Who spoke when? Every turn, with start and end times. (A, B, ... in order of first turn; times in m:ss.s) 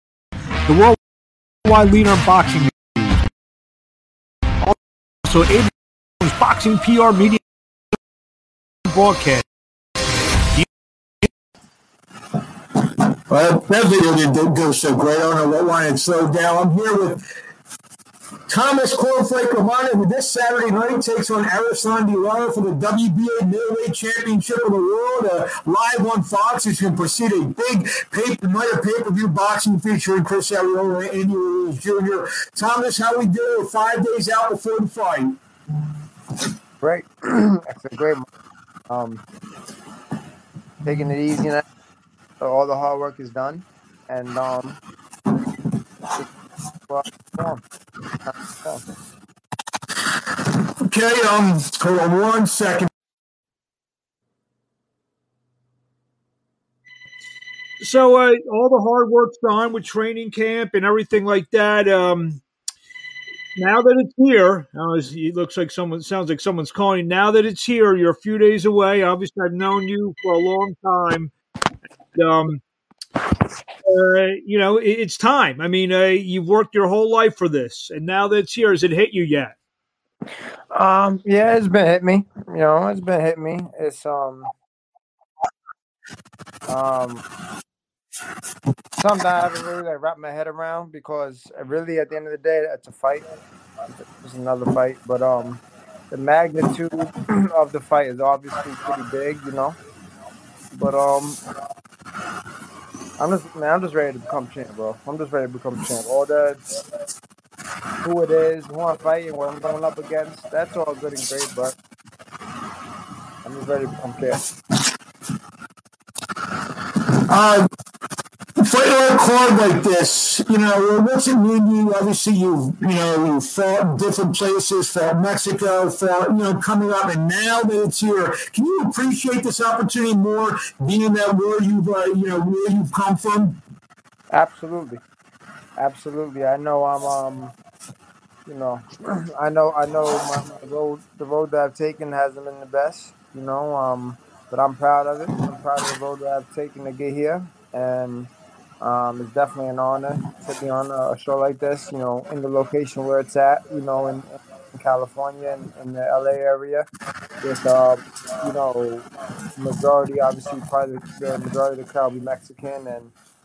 0:00.7-0:01.0 A
0:01.6-0:03.2 A
0:04.6-0:07.4 A
0:08.9-0:09.4 A
0:13.3-0:17.2 B
0:18.5-0:35.4 B
0:36.8-0:38.3 C
0:38.9-0:39.2 C
0:40.8-0:41.7 C
0:42.4-0:44.8 C
0:46.9-0:47.6 C
0:48.3-0:48.8 C
0:50.8-0:52.9 B
0:57.8-1:02.4 A
1:03.6-1:11.3 A
1:12.2-1:12.6 A
1:13.9-1:19.5 A
1:20.7-1:24.5 C
1:26.7-1:27.2 C
1:29.0-1:33.3 C
1:33.9-1:39.8 C
1:40.7-1:41.4 C
1:43.2-1:46.6 C
1:48.0-1:51.8 C
1:53.4-1:54.4 C
1:57.2-1:57.7 B
1:58.6-2:13.6 B
2:14.3-2:15.0 C
2:15.8-2:17.6 C
2:18.5-2:36.9 C
2:37.4-2:43.1 C